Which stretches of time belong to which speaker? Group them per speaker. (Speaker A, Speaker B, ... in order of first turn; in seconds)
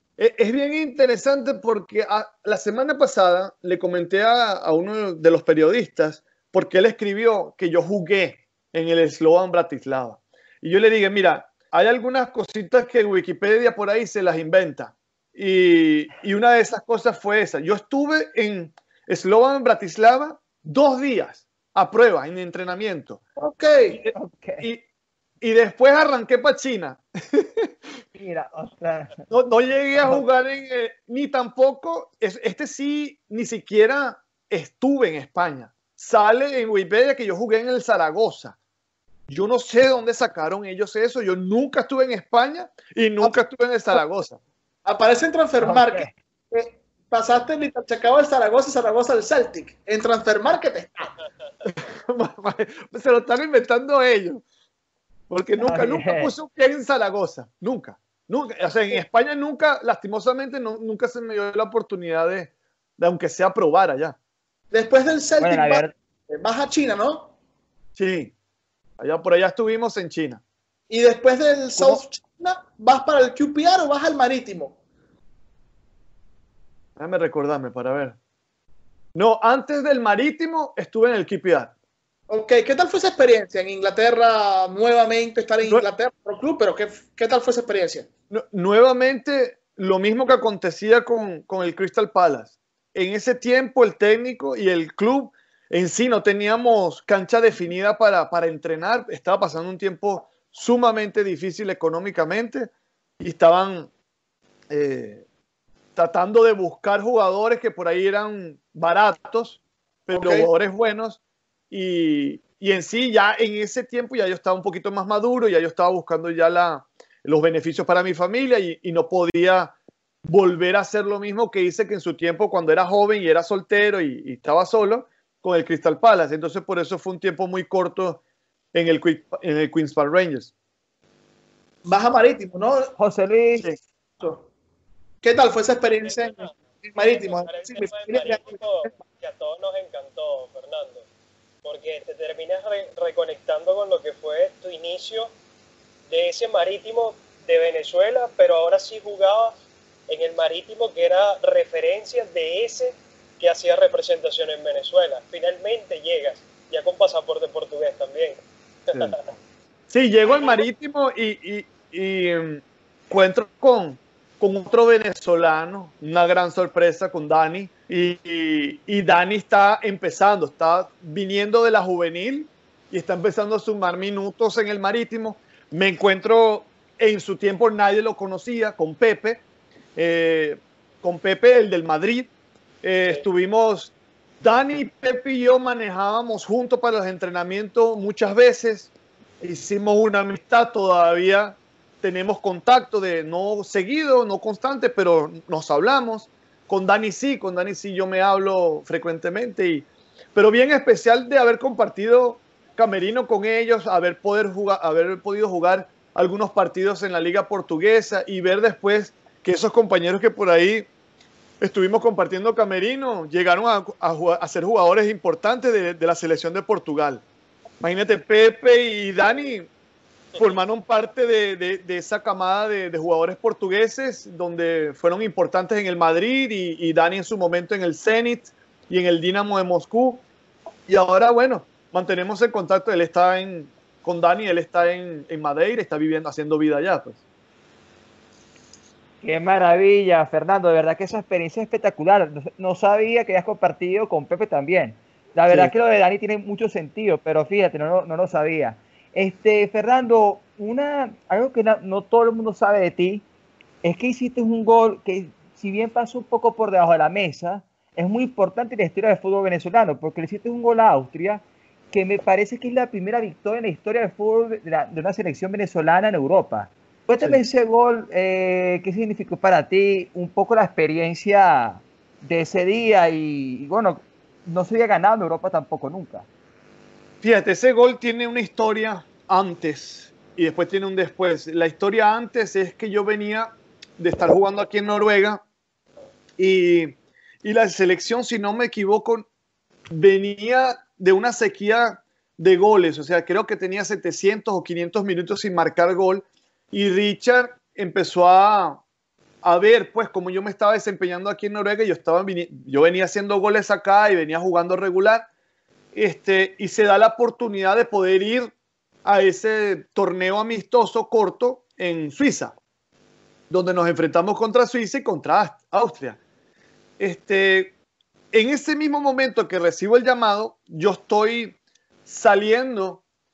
Speaker A: 0.2-23.2, 23.9-24.8, 25.4-27.7, 29.3-38.6, 39.3-44.4, 51.6-54.4, 55.3-64.2, 68.0-68.3, 69.0-70.4, 77.0-78.2, 79.2-81.7, 88.3-102.7, 103.2-103.9, 104.7-105.2, 106.0-111.2, 111.7-128.2, 128.7-130.5, 158.9-159.2, 159.9-179.4, 180.0-182.3, 182.8-210.9, 211.6-217.2, 217.8-219.7, 220.4-230.2, 230.9-237.2, 277.2-285.4, 286.4-289.3, 289.9-298.8, 299.4-305.3, 305.9-308.5, 309.0-312.5, 313.5-316.2, 317.0-317.8, 318.3-323.0
Speaker B: 23.4-24.0, 44.9-51.2, 64.7-67.3, 70.9-74.8, 82.3-88.1, 110.1-110.5, 131.9-132.9, 134.2-134.5, 135.2-138.9
Speaker C: 24.1-24.7, 28.1-29.2, 45.6-46.1, 55.6-56.3, 65.4-65.9, 71.8-72.0, 133.0-133.7, 239.2-253.2, 253.8-276.3
Speaker D: 136.0-141.1, 141.6-145.3, 146.1-158.4, 158.9-159.2, 160.3-160.6